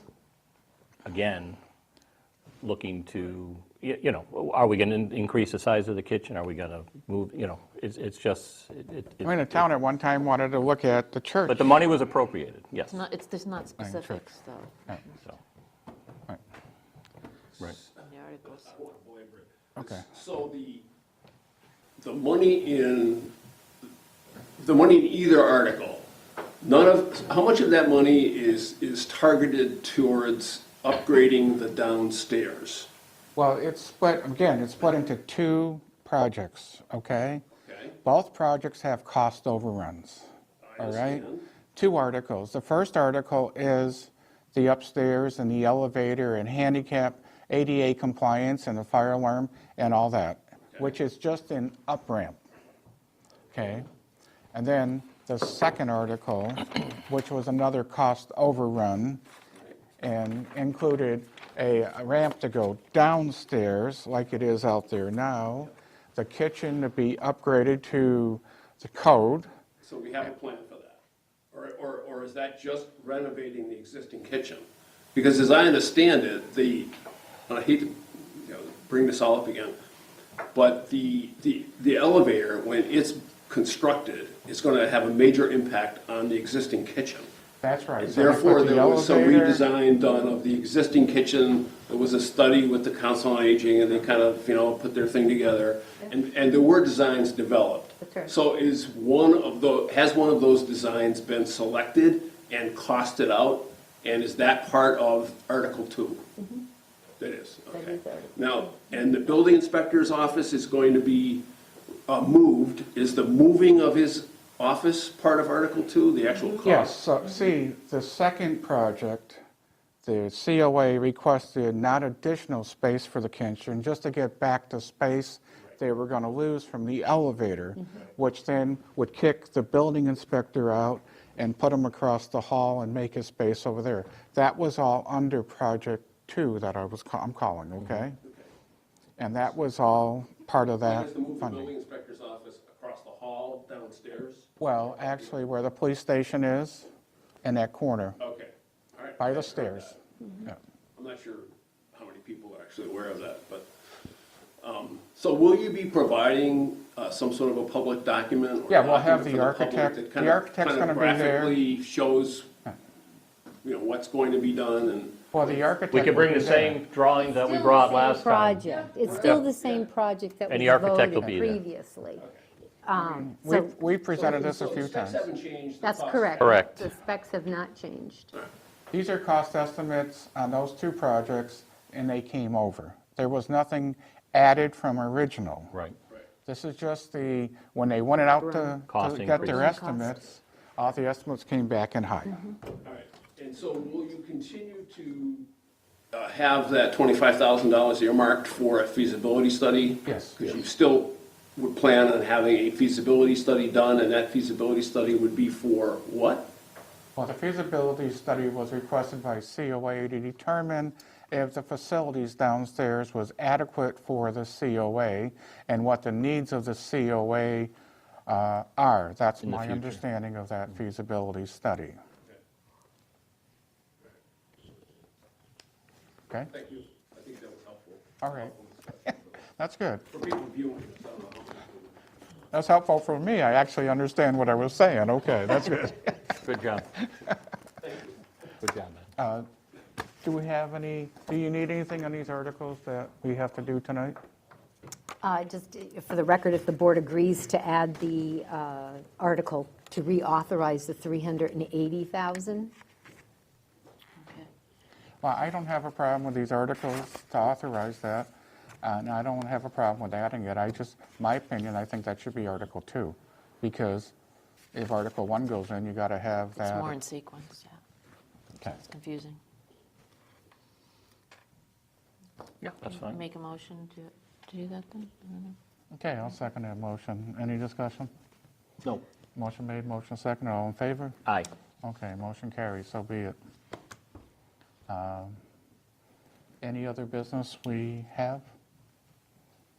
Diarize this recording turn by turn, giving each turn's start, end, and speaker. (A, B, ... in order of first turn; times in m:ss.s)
0:01.0-0:01.6 A
0:02.6-0:09.6 A
0:09.2-0:11.7 B
0:11.5-0:13.0 A
0:12.9-0:15.2 C
0:13.8-0:14.2 B
0:17.5-0:18.0 D
0:18.0-0:18.7 C
0:18.5-0:20.8 D
0:19.8-0:20.0 B
0:22.0-0:23.3 D
0:24.6-0:26.0 D
0:26.6-0:32.9 D
0:33.3-0:37.4 B
0:37.6-0:38.0 D
0:38.0-0:52.4 B
0:40.6-0:41.4 D
0:53.5-0:53.9 B
0:54.5-0:59.2 B
1:00.0-1:09.5 B
1:09.8-1:11.0 D
1:11.5-1:16.9 D
1:17.5-1:19.8 D
1:20.5-1:27.3 D
1:27.6-1:29.6 B
1:28.0-1:46.2 D
1:38.0-1:38.3 E
1:47.2-1:51.4 D
1:47.7-1:48.4 E
1:52.1-1:57.0 D
1:56.6-1:59.4 B
2:00.0-2:18.2 B
2:18.2-2:18.5 D
2:19.2-2:21.7 B
2:20.8-2:24.6 D
2:24.6-2:26.9 B
2:27.4-2:28.2 B
2:28.2-2:30.0 D
2:29.2-2:30.6 B
2:30.9-2:33.7 D
2:34.6-2:42.5 D
2:38.7-2:41.6 B
2:43.6-2:45.7 D
2:45.3-2:46.8 B
2:45.9-2:49.4 A
2:47.3-2:52.2 E
2:48.8-2:49.9 D
2:50.5-2:51.6 A
2:52.2-2:52.4 D
2:52.8-2:53.8 E
2:53.0-2:55.3 B
2:54.1-2:56.6 D
2:55.8-2:58.3 E
2:56.4-2:56.8 A
2:58.9-3:05.7 B
3:06.4-3:12.4 B
3:08.4-3:08.8 E
3:08.9-3:09.7 A
3:09.4-3:10.1 E
3:12.3-3:12.5 E
3:12.8-3:15.5 D
3:16.1-3:26.5 D
3:20.0-3:20.4 B
3:27.2-3:37.7 B
3:38.3-3:42.0 B
3:39.4-3:40.0 A
3:46.5-3:49.4 D
3:48.2-3:48.5 B
3:49.6-3:50.0 B
3:50.1-3:51.9 D
3:52.5-3:56.4 B
3:56.4-3:57.0 A
3:57.8-3:58.1 D
3:58.6-3:59.1 A
3:59.2-3:59.4 B
4:00.2-4:04.2 B
4:05.2-4:12.7 E
4:14.2-4:14.5 C
4:15.2-4:18.3 B
4:18.8-4:24.1 B
4:24.7-4:27.0 B
4:26.5-4:27.8 C
4:28.8-4:29.4 C
4:32.6-4:35.6 C
4:32.8-4:33.2 A
4:35.9-4:38.1 B
4:39.4-4:41.2 B
4:41.8-4:43.4 B
4:44.9-4:45.4 B
4:46.6-4:48.5 B